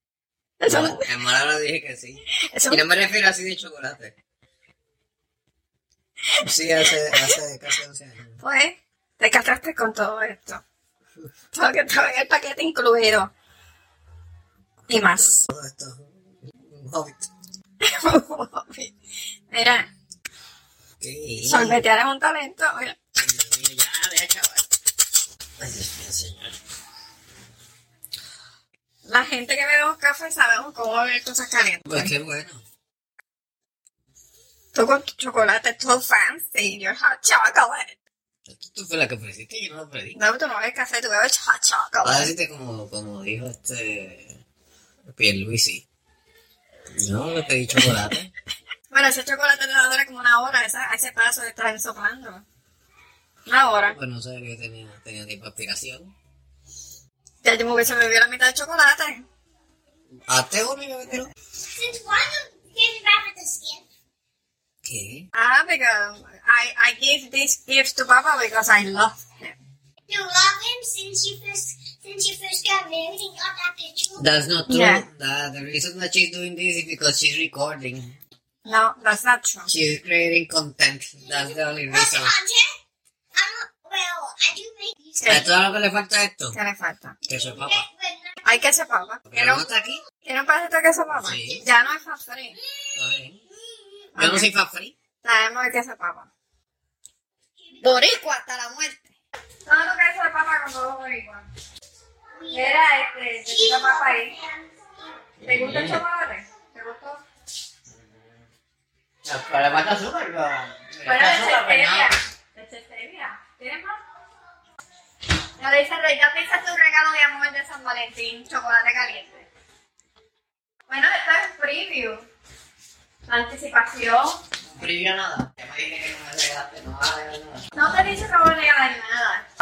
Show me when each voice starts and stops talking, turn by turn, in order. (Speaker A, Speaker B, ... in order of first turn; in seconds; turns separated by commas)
Speaker A: 0.6-1.1, Speaker B: 0.7-4.2, Speaker A: 2.4-2.8, Speaker A: 6.3-7.4, Speaker B: 6.4-8.4, Speaker A: 8.4-10.6, Speaker A: 11.5-13.3, Speaker A: 14.9-15.5, Speaker B: 14.9-17.3, Speaker A: 17.8-18.9, Speaker A: 19.5-19.9, Speaker B: 21.0-21.8, Speaker A: 21.5-23.0, Speaker B: 23.2-24.7, Speaker B: 25.6-26.6, Speaker A: 29.1-32.1, Speaker B: 31.9-32.6, Speaker A: 34.7-37.9, Speaker B: 38.5-40.2, Speaker A: 40.1-42.3, Speaker B: 42.0-44.4, Speaker B: 45.1-45.9, Speaker B: 46.9-48.3, Speaker A: 48.9-52.4, Speaker A: 53.5-54.0, Speaker B: 53.9-56.1, Speaker A: 57.4-59.2, Speaker B: 60.3-61.3, Speaker C: 61.7-63.8, Speaker B: 64.8-65.3, Speaker A: 65.3-69.6, Speaker C: 70.1-74.2, Speaker B: 74.2-78.2, Speaker A: 74.7-75.0, Speaker A: 78.7-79.7, Speaker B: 79.7-82.4, Speaker C: 81.2-82.8, Speaker C: 83.3-85.4, Speaker A: 85.2-85.5, Speaker B: 85.3-86.6, Speaker A: 86.5-87.2, Speaker B: 87.3-87.9, Speaker C: 87.3-88.7, Speaker A: 88.4-89.7, Speaker B: 89.3-90.0, Speaker A: 90.2-92.6, Speaker B: 91.2-91.7, Speaker C: 92.6-93.0, Speaker B: 93.0-93.5, Speaker C: 93.5-94.1, Speaker A: 94.2-94.5, Speaker B: 94.2-94.9, Speaker A: 95.2-96.3, Speaker C: 97.6-98.2, Speaker A: 97.8-99.1, Speaker A: 99.7-101.5, Speaker C: 102.4-102.8, Speaker A: 102.5-104.3, Speaker C: 103.5-105.3, Speaker B: 105.4-106.0, Speaker A: 105.4-107.2, Speaker B: 107.9-108.5, Speaker B: 109.2-112.2, Speaker A: 111.0-114.0, Speaker A: 115.6-119.5, Speaker A: 120.9-122.2, Speaker A: 123.3-124.4, Speaker B: 124.7-127.7, Speaker A: 127.8-129.5